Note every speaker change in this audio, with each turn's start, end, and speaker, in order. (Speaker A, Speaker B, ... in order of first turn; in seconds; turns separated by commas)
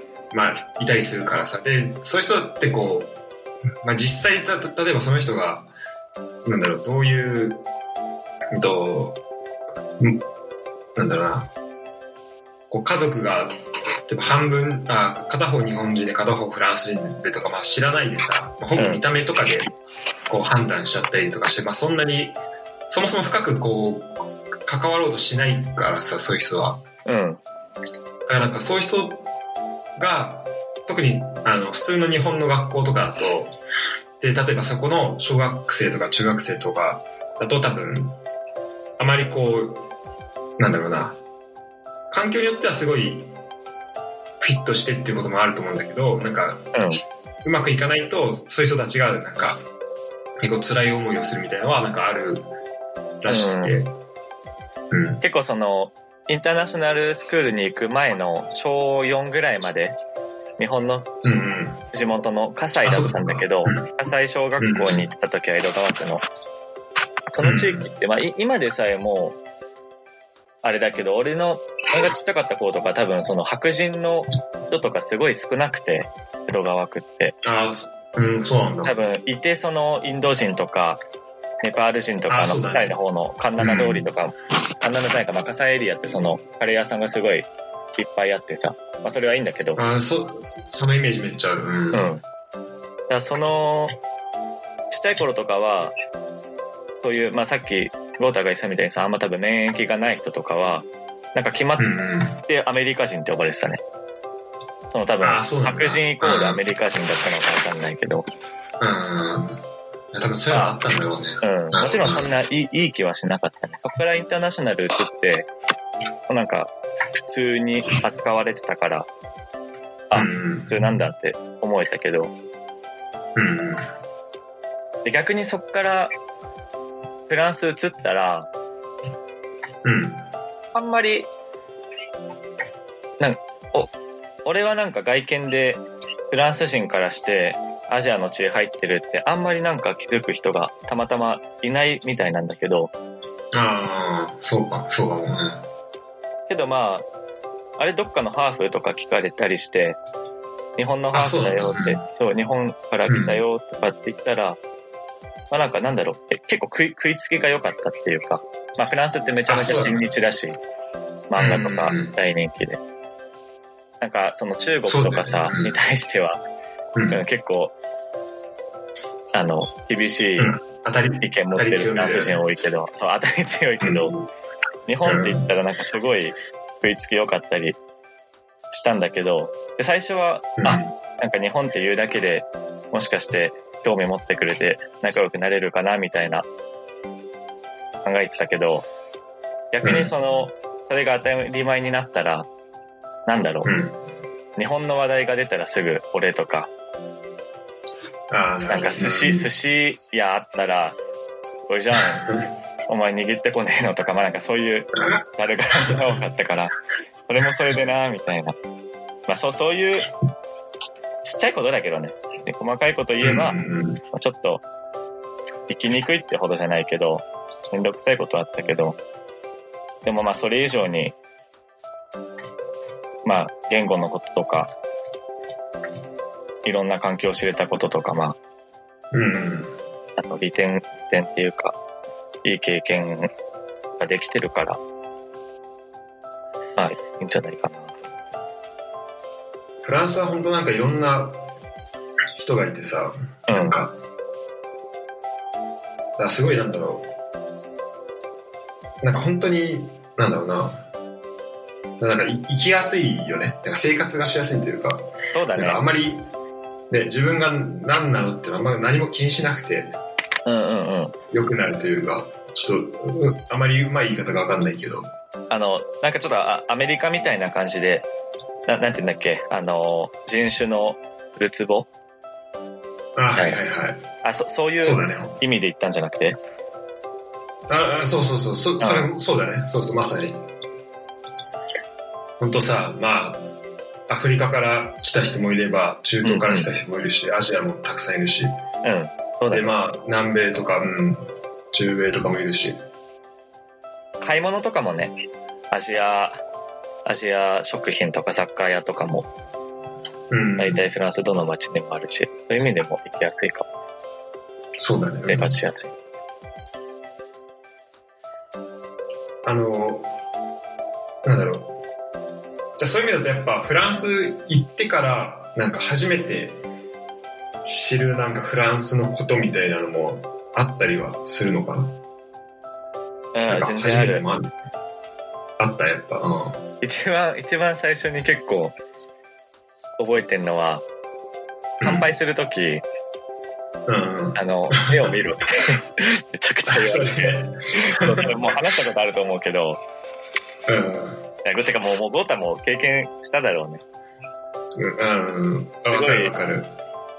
Speaker A: 0.3-3.1, Speaker A: 3.8-5.7, Speaker A: 6.4-7.6, Speaker A: 8.5-9.2, Speaker A: 10.0-10.2, Speaker A: 10.9-11.5, Speaker A: 12.7-13.5, Speaker A: 14.1-19.7, Speaker B: 18.8-19.0, Speaker A: 20.3-22.4, Speaker A: 22.9-26.8, Speaker B: 27.1-27.4, Speaker A: 28.3-29.2, Speaker A: 29.9-33.5, Speaker A: 34.2-38.2, Speaker A: 39.0-39.9, Speaker A: 40.6-41.2, Speaker A: 42.1-43.3, Speaker A: 44.4-46.7, Speaker B: 46.7-47.0, Speaker A: 47.4-49.6, Speaker A: 50.4-52.5, Speaker A: 53.2-53.9, Speaker B: 53.3-53.8, Speaker A: 54.9-55.2, Speaker B: 55.2-60.0, Speaker B: 60.6-61.1, Speaker A: 61.2-61.8, Speaker B: 61.9-66.2, Speaker A: 62.8-63.9, Speaker A: 64.6-65.0, Speaker B: 67.3-69.4, Speaker A: 67.4-67.9, Speaker B: 70.6-77.3, Speaker A: 77.4-78.9, Speaker B: 78.8-81.0, Speaker B: 81.6-89.8, Speaker A: 82.3-83.0, Speaker A: 83.6-84.1, Speaker A: 89.8-92.1, Speaker B: 91.9-92.2, Speaker B: 93.1-93.9, Speaker B: 94.9-95.9, Speaker B: 97.0-101.9, Speaker A: 101.8-102.4, Speaker B: 102.5-103.8, Speaker B: 104.9-108.2, Speaker A: 105.2-106.6, Speaker A: 108.8-112.3, Speaker B: 110.5-110.8, Speaker B: 111.4-115.5, Speaker B: 116.3-119.1, Speaker B: 120.1-122.3, Speaker A: 120.1-120.8, Speaker A: 123.3-123.8, Speaker B: 125.0-126.1, Speaker B: 127.3-128.5, Speaker A: 129.8-130.2, Speaker B: 130.7-131.3, Speaker B: 133.2-133.9, Speaker B: 134.4-142.9, Speaker A: 143.5-145.6, Speaker B: 146.5-147.1, Speaker B: 147.8-150.0, Speaker B: 150.8-154.6, Speaker A: 151.1-152.0, Speaker A: 153.1-153.4, Speaker B: 155.5-160.6, Speaker A: 159.5-160.1, Speaker B: 161.3-162.8, Speaker A: 161.4-162.1, Speaker B: 164.0-166.4, Speaker A: 164.8-165.8, Speaker A: 166.9-167.2, Speaker B: 167.1-167.7, Speaker B: 169.3-170.6, Speaker A: 170.4-172.4, Speaker B: 171.2-174.1, Speaker A: 173.8-174.3, Speaker B: 174.9-177.8, Speaker A: 175.1-175.5, Speaker B: 178.7-186.5, Speaker A: 180.6-180.9, Speaker B: 188.0-188.9, Speaker B: 189.7-192.5, Speaker A: 189.8-190.1, Speaker B: 193.3-193.7, Speaker A: 193.6-193.9, Speaker B: 194.6-196.7, Speaker A: 198.3-199.5, Speaker B: 198.7-201.0, Speaker B: 201.7-202.3, Speaker B: 202.9-206.7, Speaker B: 207.3-208.5, Speaker B: 209.3-210.1, Speaker B: 211.2-213.6, Speaker A: 213.2-214.0, Speaker B: 214.1-214.6, Speaker B: 215.7-219.0, Speaker B: 220.0-221.2, Speaker B: 223.2-224.7, Speaker B: 226.6-228.4, Speaker A: 229.1-229.7, Speaker B: 230.2-231.8, Speaker B: 232.4-233.3, Speaker B: 234.0-234.8, Speaker B: 236.8-237.9, Speaker A: 239.8-241.4, Speaker A: 242.4-243.9, Speaker B: 243.5-243.8, Speaker A: 246.2-247.1, Speaker A: 249.0-250.8, Speaker A: 252.0-256.3, Speaker B: 255.3-255.8, Speaker A: 256.9-260.0, Speaker B: 260.4-261.1, Speaker A: 261.3-265.1, Speaker B: 265.5-268.1, Speaker B: 268.7-271.9, Speaker A: 273.1-274.0, Speaker B: 274.2-276.4, Speaker A: 274.8-275.4, Speaker A: 277.7-280.4, Speaker B: 278.8-279.1, Speaker A: 282.4-283.5, Speaker A: 284.1-288.6, Speaker B: 286.2-286.7, Speaker B: 288.8-289.7, Speaker A: 289.5-292.8, Speaker B: 294.2-295.1, Speaker B: 295.7-296.4, Speaker B: 297.1-299.3, Speaker A: 300.3-300.9, Speaker B: 300.6-303.7, Speaker A: 304.8-305.6, Speaker B: 305.2-305.9, Speaker A: 309.4-310.1, Speaker A: 311.2-311.7, Speaker A: 312.8-316.6, Speaker A: 317.6-321.9, Speaker B: 323.3-324.2, Speaker A: 323.5-324.5, Speaker A: 325.6-326.6, Speaker B: 326.8-328.8, Speaker B: 330.0-330.8, Speaker A: 331.8-332.1, Speaker B: 331.8-332.8, Speaker A: 333.9-335.1, Speaker B: 334.3-339.8, Speaker A: 336.7-338.3, Speaker A: 340.7-341.2, Speaker B: 341.4-343.8, Speaker A: 344.8-346.7, Speaker B: 345.9-346.4